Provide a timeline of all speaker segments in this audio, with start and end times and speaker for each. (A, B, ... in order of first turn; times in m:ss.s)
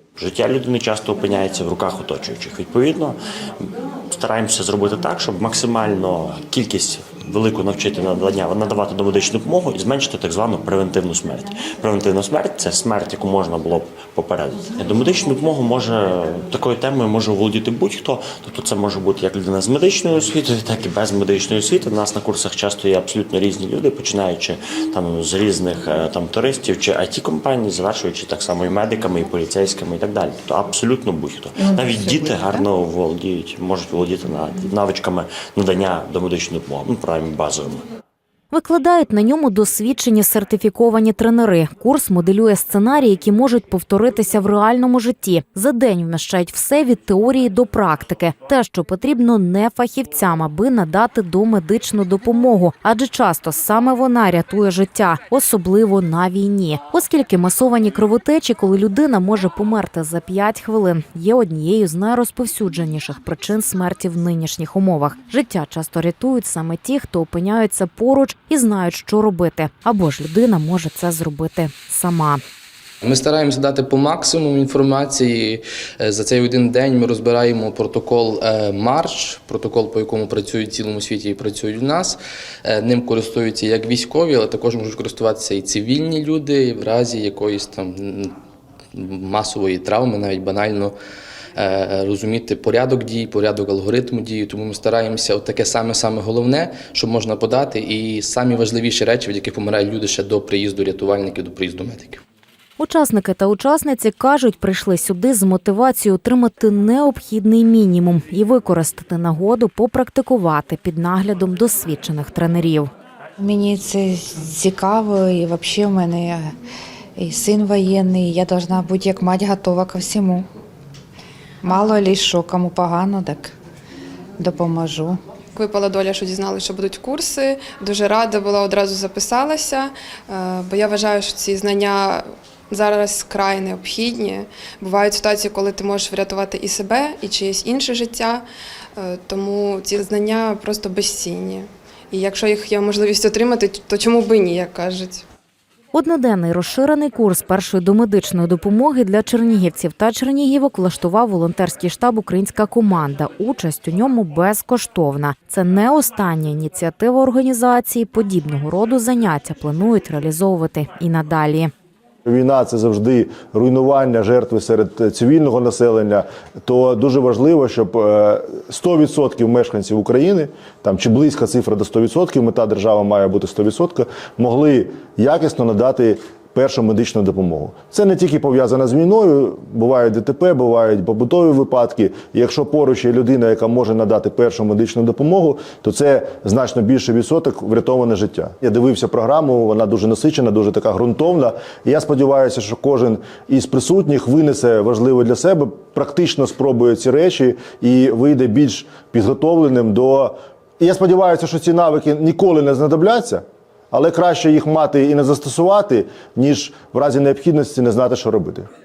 0:00.2-0:03.2 A
0:04.1-0:37.8 A
0:38.5-1:12.4 B
1:13.0-1:28.3 C
1:28.9-1:30.9 C
1:31.6-1:42.2 C
1:42.8-1:52.9 B
1:53.4-1:56.5 D
1:57.2-2:00.5 D
2:01.6-2:03.6 D
2:04.4-2:05.2 D
2:05.6-2:18.4 E
2:19.0-2:25.2 E
2:25.9-2:41.7 B
2:42.2-3:28.7 F